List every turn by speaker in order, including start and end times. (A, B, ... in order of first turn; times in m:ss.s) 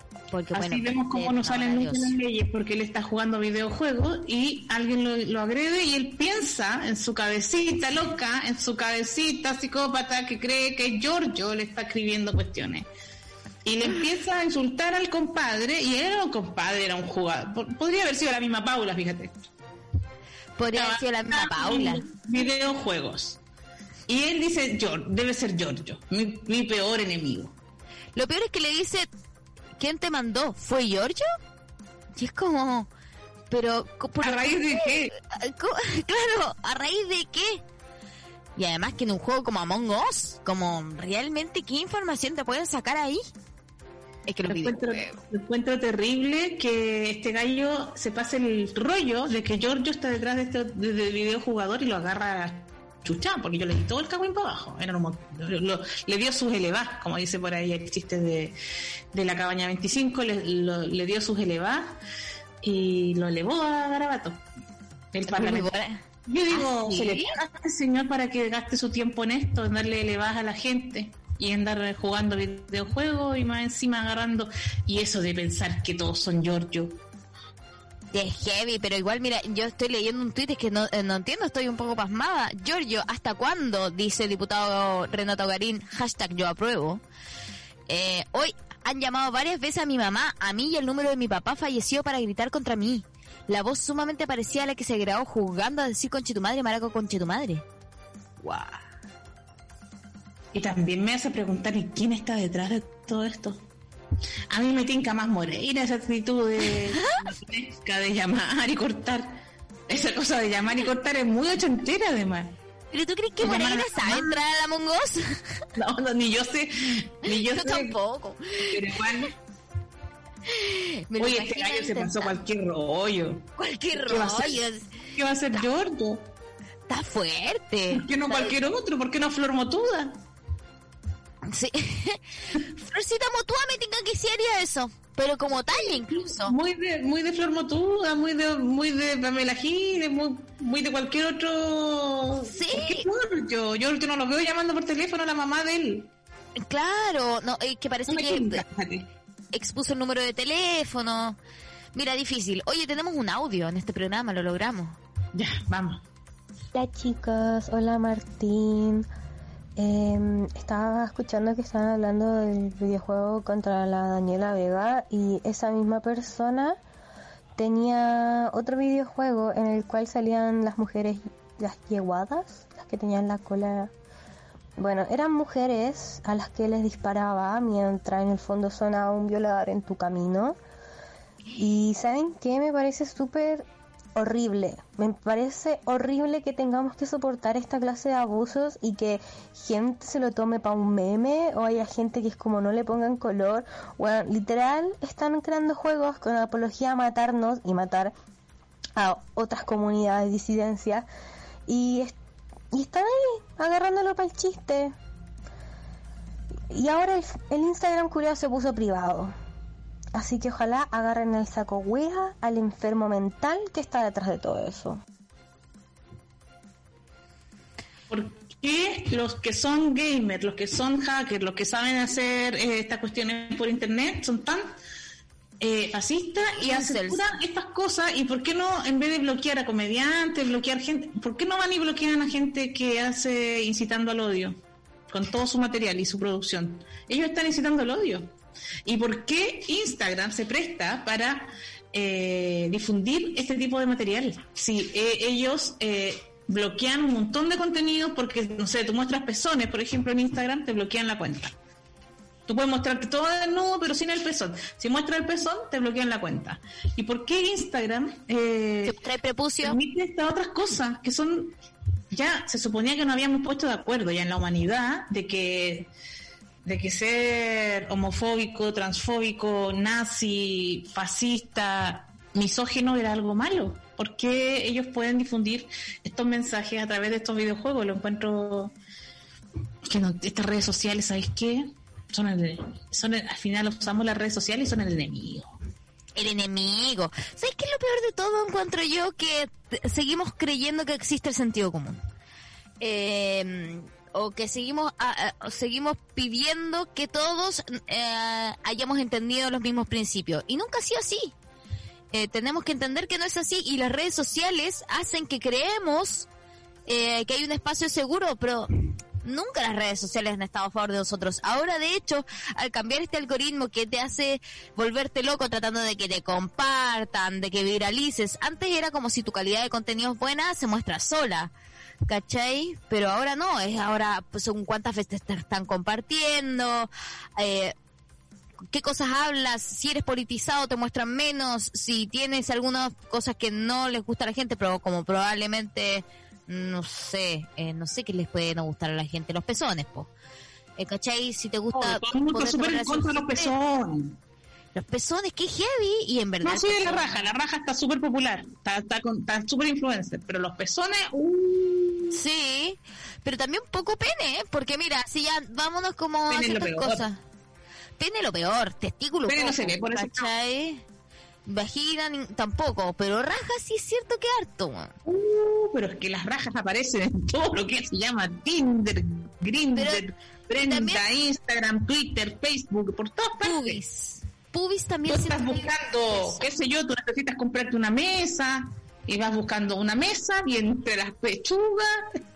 0:00.3-0:02.2 A
0:00.5-0:12.9 B
0:13.6-0:19.4 B
0:20.6-0:22.1 A
0:20.7-0:23.4 B
0:24.1-0:27.6 B
0:28.2-0:29.1 A
0:29.8-0:31.3 A
0:32.2-0:32.9 A
0:33.5-0:37.6 A
0:34.2-0:35.1 B
0:38.6-0:43.2 A
0:44.3-0:45.2 A
0:44.5-0:58.6 B
0:59.1-1:02.0 B
1:02.6-1:04.4 B
1:05.1-1:05.7 B
1:05.3-1:07.4 A
1:06.3-1:17.0 B
1:18.1-1:27.0 A
1:27.9-1:37.6 A
1:38.4-1:38.8 A
1:40.5-1:43.6 B
1:44.5-1:52.5 B
1:46.9-1:47.3 A
1:52.9-1:55.4 A
1:53.4-1:54.4 B
1:55.8-1:58.0 B
1:57.2-1:58.8 A
1:58.7-1:59.3 B
2:00.5-2:02.4 A
2:01.2-2:04.6 B
2:03.6-2:05.6 A
2:05.2-2:06.3 B
2:06.9-2:08.6 A
2:07.9-2:10.2 B
2:11.5-2:16.6 A
2:15.7-2:26.1 B
2:22.5-2:23.1 A
2:26.6-2:28.6 A
2:28.1-2:29.1 B
2:29.5-2:31.4 A
2:31.9-2:35.0 A
2:35.3-2:36.0 B
2:36.7-2:39.1 C
2:39.8-2:46.8 C
2:47.6-2:53.9 C
2:54.8-3:00.6 C
3:01.6-3:03.6 C
3:04.2-3:18.1 C
3:19.0-3:21.1 C
3:21.7-3:22.2 C
3:22.7-3:24.9 C
3:26.7-3:29.3 C
3:30.1-3:35.0 C
3:38.1-3:44.7 B
3:45.6-3:54.6 B
3:46.5-3:47.3 A
3:55.1-3:58.3 B
3:58.8-4:11.6 B
4:12.5-4:19.0 B
4:18.8-4:19.8 A
4:19.6-4:21.6 B
4:22.1-4:25.9 B
4:26.6-4:38.7 B
4:39.8-4:45.6 B
4:46.2-4:52.0 A
4:52.8-5:01.3 A
5:02.1-5:06.3 A
5:06.9-5:08.7 A
5:09.2-5:21.5 A
5:22.1-5:27.8 A
5:28.7-5:40.1 A
5:40.8-5:43.5 A
5:41.7-5:44.2 B
5:44.7-5:47.3 A
5:46.4-5:52.2 B
5:52.1-5:57.2 A
5:56.3-5:57.1 B
5:58.0-6:00.8 A
5:59.3-6:00.3 B
6:01.5-6:04.9 A
6:05.0-6:13.8 B
6:09.8-6:10.0 A
6:10.6-6:11.0 A
6:13.4-6:16.5 A
6:15.1-6:22.2 B